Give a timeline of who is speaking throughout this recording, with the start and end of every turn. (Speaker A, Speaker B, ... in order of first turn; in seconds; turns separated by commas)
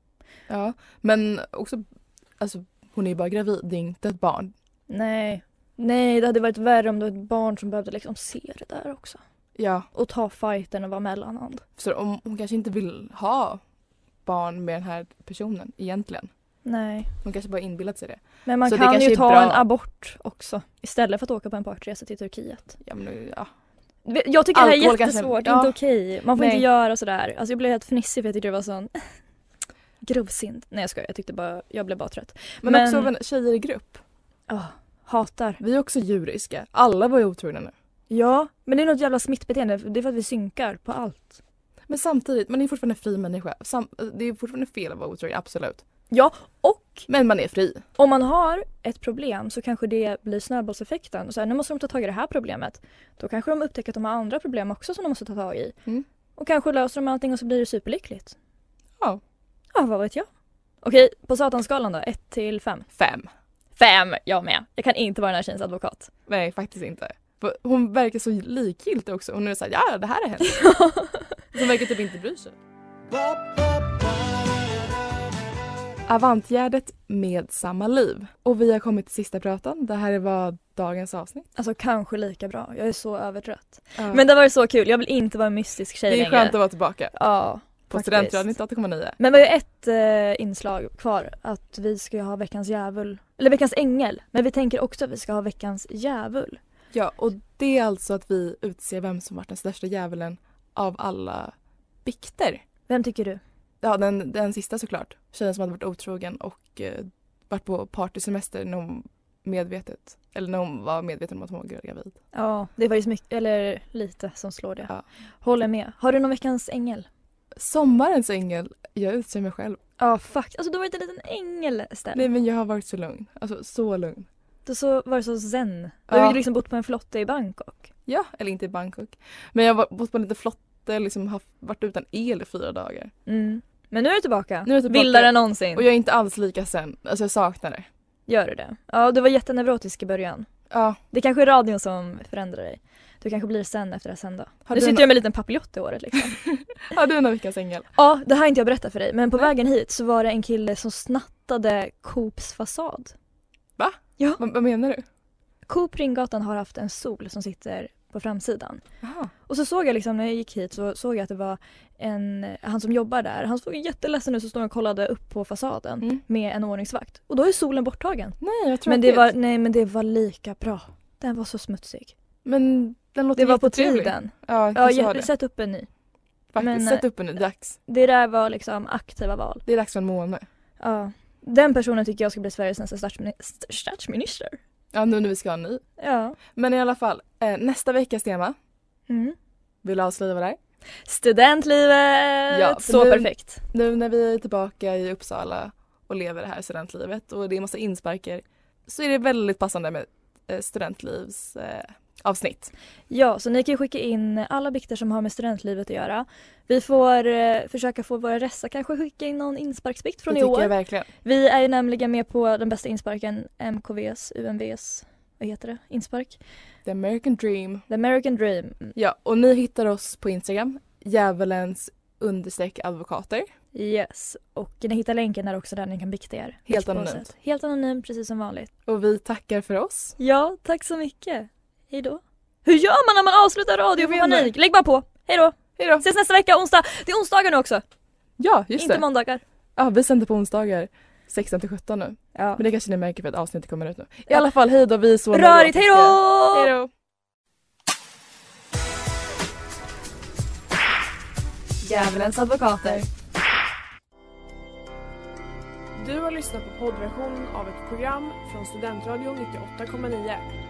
Speaker A: 0.5-1.8, Speaker A: 2.4-4.5, Speaker B: 4.9-9.2, Speaker A: 9.6-9.9, Speaker B: 9.9-11.6, Speaker A: 11.8-13.6, Speaker A: 14.2-16.3, Speaker B: 16.6-17.1, Speaker A: 17.2-19.6, Speaker B: 18.4-22.8, Speaker A: 22.8-23.5, Speaker B: 24.1-28.9, Speaker A: 24.5-25.8, Speaker A: 26.4-26.6, Speaker B: 30.0-33.1, Speaker A: 32.6-34.0, Speaker B: 34.5-35.6, Speaker A: 35.6-37.7, Speaker B: 38.1-41.4, Speaker A: 41.9-45.8, Speaker B: 46.1-47.0, Speaker A: 47.1-47.8, Speaker B: 48.0-55.7, Speaker B: 56.4-58.4, Speaker B: 59.7-60.3, Speaker B: 60.8-62.9, Speaker A: 63.0-63.3, Speaker B: 63.8-66.1, Speaker A: 66.3-70.7, Speaker B: 70.5-71.4, Speaker A: 71.5-72.5, Speaker A: 76.1-81.5, Speaker B: 81.5-86.5, Speaker A: 84.0-84.2, Speaker A: 86.1-87.1, Speaker B: 87.1-88.5, Speaker A: 87.9-89.2, Speaker B: 89.2-96.6, Speaker A: 96.9-101.5, Speaker A: 102.0-102.6, Speaker B: 102.9-103.4, Speaker A: 103.8-112.2, Speaker B: 112.3-114.9, Speaker B: 115.4-117.1, Speaker A: 117.6-119.8, Speaker B: 120.0-122.2, Speaker A: 122.1-124.3, Speaker B: 124.7-127.9, Speaker A: 126.1-126.4, Speaker A: 128.1-133.1, Speaker B: 133.3-135.8, Speaker A: 134.7-137.9, Speaker B: 138.3-140.5, Speaker A: 140.7-141.0, Speaker B: 141.1-146.4, Speaker A: 144.7-145.1, Speaker A: 146.9-147.9, Speaker B: 147.9-153.1, Speaker A: 153.8-155.0, Speaker B: 155.7-158.8, Speaker A: 159.0-159.3, Speaker B: 159.5-172.1, Speaker A: 168.4-169.3, Speaker A: 172.4-175.3, Speaker B: 173.3-175.9, Speaker A: 176.5-177.8, Speaker B: 176.6-179.6, Speaker A: 179.7-180.4, Speaker B: 180.8-184.6, Speaker A: 184.9-185.8, Speaker B: 186.0-186.4, Speaker A: 186.5-188.5, Speaker B: 189.1-189.3, Speaker A: 189.8-190.6, Speaker B: 191.0-193.6, Speaker A: 192.5-202.7, Speaker B: 203.1-210.7, Speaker A: 210.3-211.1, Speaker B: 211.2-216.4, Speaker A: 216.8-217.8, Speaker B: 217.9-218.9, Speaker A: 218.9-223.5, Speaker B: 223.7-228.7, Speaker A: 226.7-227.3, Speaker A: 228.9-230.2, Speaker B: 230.2-237.8, Speaker A: 234.0-234.5, Speaker A: 235.8-236.0, Speaker A: 238.4-239.0, Speaker B: 238.8-239.4, Speaker A: 239.8-246.9, Speaker B: 242.3-242.6, Speaker B: 245.3-246.7, Speaker B: 251.8-253.1, Speaker C: 255.9-260.4